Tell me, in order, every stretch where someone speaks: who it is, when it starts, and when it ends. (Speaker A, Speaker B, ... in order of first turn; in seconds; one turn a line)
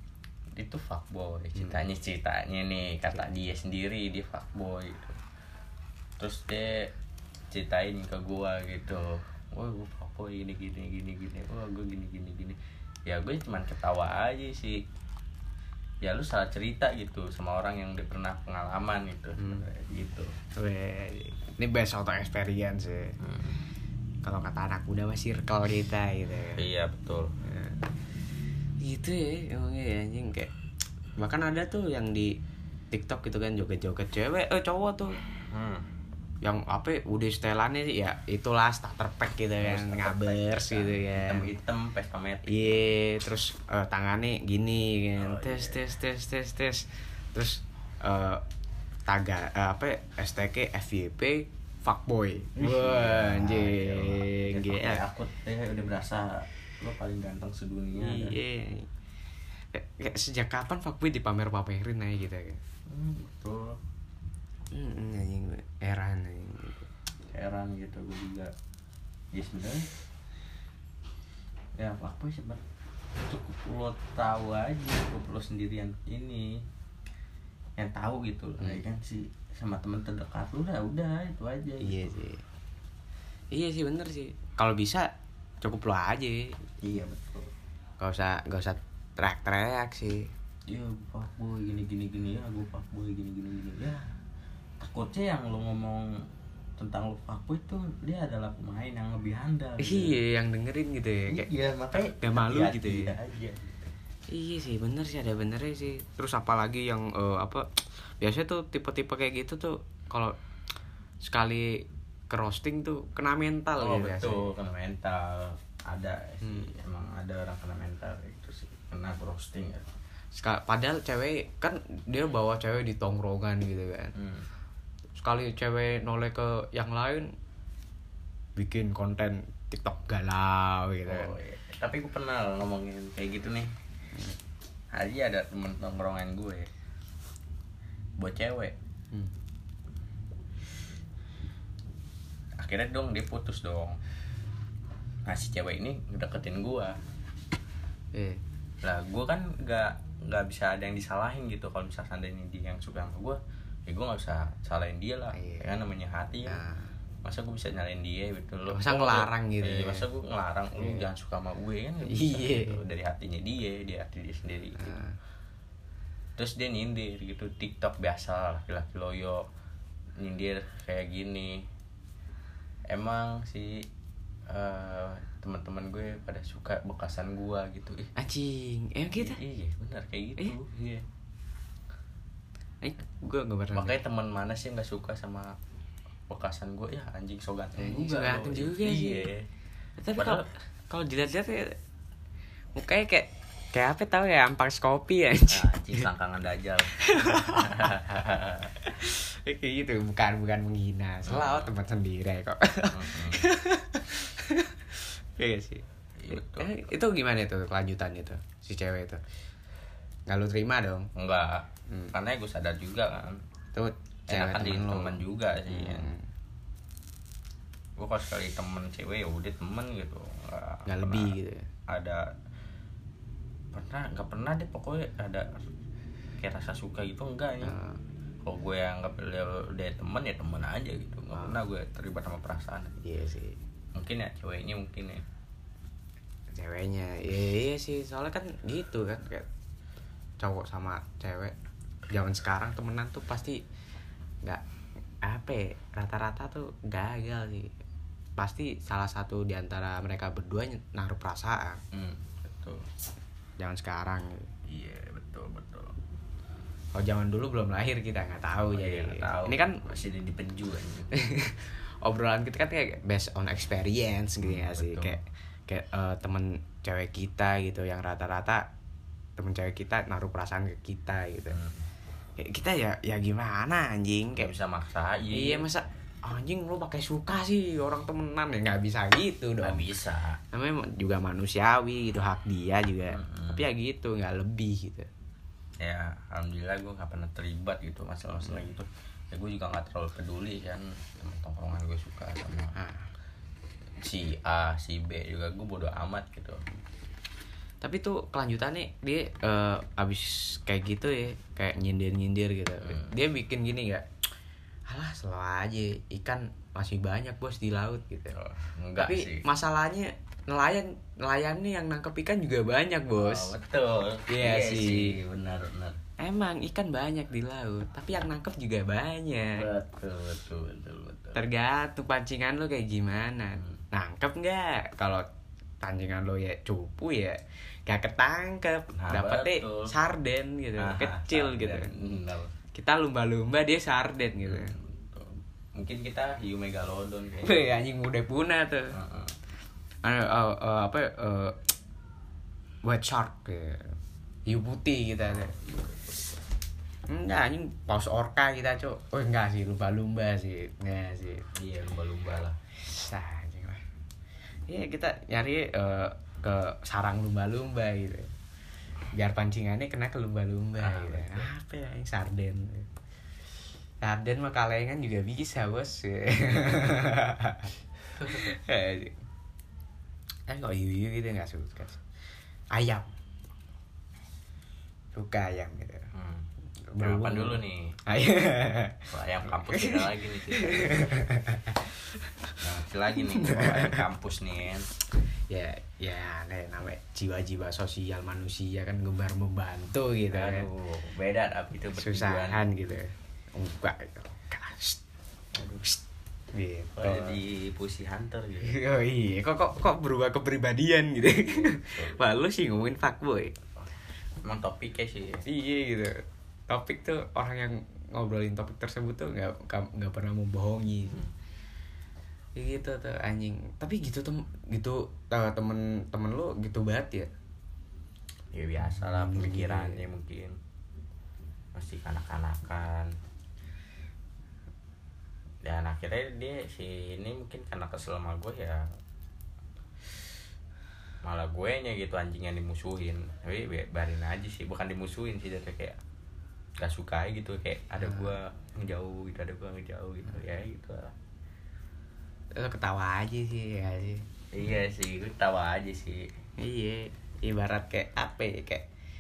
Speaker A: 0.6-5.2
Speaker A: 6.2-6.9
Speaker A: 7.5-14.8
Speaker A: 16.0-20.3
Speaker B: 19.4-19.6
Speaker B: 20.6-23.1
Speaker A: 23.2-23.6
Speaker B: 24.2-26.6
Speaker A: 26.6-27.3
Speaker B: 27.4-27.8
Speaker B: 28.8-30.5
Speaker B: 31.2-32.4
Speaker B: 32.9-35.2
Speaker A: 35.5-35.8
Speaker B: 36.4-41.5
Speaker A: 39.6-42.9
Speaker B: 42.5-48.4
Speaker A: 45.2-45.9
Speaker B: 49.1-55.0
Speaker A: 52.6-58.4
Speaker B: 57.9-58.9
Speaker B: 59.7-62.6
Speaker A: 62.9-63.8
Speaker B: 64.7-66.9
Speaker A: 67.3-68.5
Speaker A: 69.3-69.9
Speaker A: 71.8-72.6
Speaker A: 73.3-76.6
Speaker A: 77.8-82.2
Speaker B: 81.8-82.4
Speaker B: 83.5-85.1
Speaker B: 85.6-86.6
Speaker A: 86.8-87.5
Speaker B: 88.0-90.3
Speaker A: 90.7-94.0
Speaker A: 94.8-96.1
Speaker A: 96.8-100.2
Speaker B: 99.8-103.1
Speaker A: 101.3-103.9
Speaker B: 104.3-107.7
Speaker B: 108.2-110.3
Speaker B: 111.2-114.5
Speaker A: 113.8-119.8
Speaker B: 116.4-116.7
Speaker B: 120.3-124.1
Speaker A: 124.2-124.5
Speaker B: 125.2-127.3
Speaker B: 128.6-131.3
Speaker A: 131.1-133.7
Speaker A: 134.9-136.7
Speaker A: 138.2-138.7
Speaker A: 142.6-144.0
Speaker A: 145.3-147.0
Speaker B: 148.1-148.4
Speaker A: 148.8-156.6
Speaker B: 155.3-155.7
Speaker B: 156.5-156.9
Speaker A: 157.2-165.0
Speaker B: 158.7-160.1
Speaker B: 160.8-161.1
Speaker B: 162.1-162.8
Speaker B: 164.8-165.2
Speaker A: 166.4-169.4
Speaker A: 170.2-171.7
Speaker A: 172.9-173.9
Speaker A: 174.5-178.1
Speaker B: 178.2-179.4
Speaker A: 179.1-181.0
Speaker B: 182.8-184.0
Speaker A: 183.7-185.6
Speaker A: 186.3-189.5
Speaker B: 187.8-189.3
Speaker B: 190.0-191.8
Speaker A: 190.2-190.5
Speaker B: 192.7-196.1
Speaker A: 195.5-198.8
Speaker B: 196.9-197.9
Speaker B: 198.8-209.2
Speaker A: 201.2-201.8
Speaker A: 202.9-203.5
Speaker A: 206.2-206.8
Speaker B: 210.3-211.1
Speaker A: 211.2-213.4
Speaker B: 211.9-212.1
Speaker B: 213.7-216.3
Speaker A: 214.3-216.1
Speaker A: 218.0-221.3
Speaker B: 220.8-221.7
Speaker A: 221.9-222.2
Speaker A: 223.7-225.5
Speaker A: 226.4-227.8
Speaker B: 227.6-228.0
Speaker A: 228.4-232.9
Speaker B: 233.0-233.6
Speaker A: 233.9-235.2
Speaker B: 236.5-239.5
Speaker B: 240.4-241.6
Speaker B: 242.1-243.6
Speaker B: 245.2-247.7
Speaker B: 248.4-251.8
Speaker A: 251.9-252.8
Speaker B: 253.6-254.5
Speaker A: 254.7-255.9
Speaker B: 256.9-259.8
Speaker A: 258.7-261.1
Speaker B: 261.1-268.7
Speaker A: 264.4-265.2
Speaker B: 269.4-271.6
Speaker A: 271.5-271.9
Speaker B: 272.4-274.5
Speaker A: 274.4-275.7
Speaker B: 275.3-279.9
Speaker A: 279.6-280.4
Speaker B: 280.5-285.1
Speaker A: 283.1-283.7
Speaker A: 285.8-292.8
Speaker B: 292.7-293.1
Speaker A: 294.0-296.6
Speaker B: 297.8-304.1
Speaker A: 302.8-303.2
Speaker B: 304.9-308.4
Speaker A: 308.3-309.5
Speaker B: 309.0-313.5
Speaker A: 313.2-316.0
Speaker B: 314.3-315.2
Speaker B: 316.2-319.7
Speaker A: 319.5-321.4
Speaker B: 321.3-325.3
Speaker B: 325.8-331.9
Speaker A: 328.9-329.9
Speaker A: 330.8-332.5
Speaker B: 332.7-334.7
Speaker A: 334.4-337.8
Speaker B: 337.4-338.9
Speaker A: 338.9-339.3
Speaker B: 340.0-341.6
Speaker B: 342.8-345.6
Speaker B: 347.1-351.4
Speaker A: 351.6-352.6
Speaker B: 352.8-353.8
Speaker B: 354.7-358.3
Speaker B: 359.1-362.9
Speaker A: 360.8-361.5
Speaker B: 364.0-367.7
Speaker A: 368.2-368.5
Speaker B: 368.3-369.2
Speaker B: 370.5-372.0
Speaker B: 372.7-373.1
Speaker B: 375.1-376.1
Speaker A: 376.1-376.5
Speaker B: 376.9-382.6
Speaker A: 377.0-377.9
Speaker A: 379.1-381.1
Speaker A: 382.6-384.9
Speaker B: 383.1-384.1
Speaker B: 385.5-390.7
Speaker A: 390.3-392.6
Speaker B: 391.9-395.0
Speaker A: 395.5-395.9
Speaker B: 396.5-397.4
Speaker A: 396.9-398.8
Speaker B: 398.6-403.6
Speaker A: 401.3-402.2
Speaker A: 404.4-405.4
Speaker B: 405.4-411.3
Speaker B: 412.6-417.3
Speaker A: 418.5-420.6
Speaker B: 418.8-420.1
Speaker A: 421.7-423.1
Speaker A: 425.6-428.8
Speaker A: 431.2-436.0
Speaker A: 436.8-441.1
Speaker B: 438.0-438.4
Speaker B: 442.6-444.3
Speaker A: 444.5-446.3
Speaker B: 446.6-448.9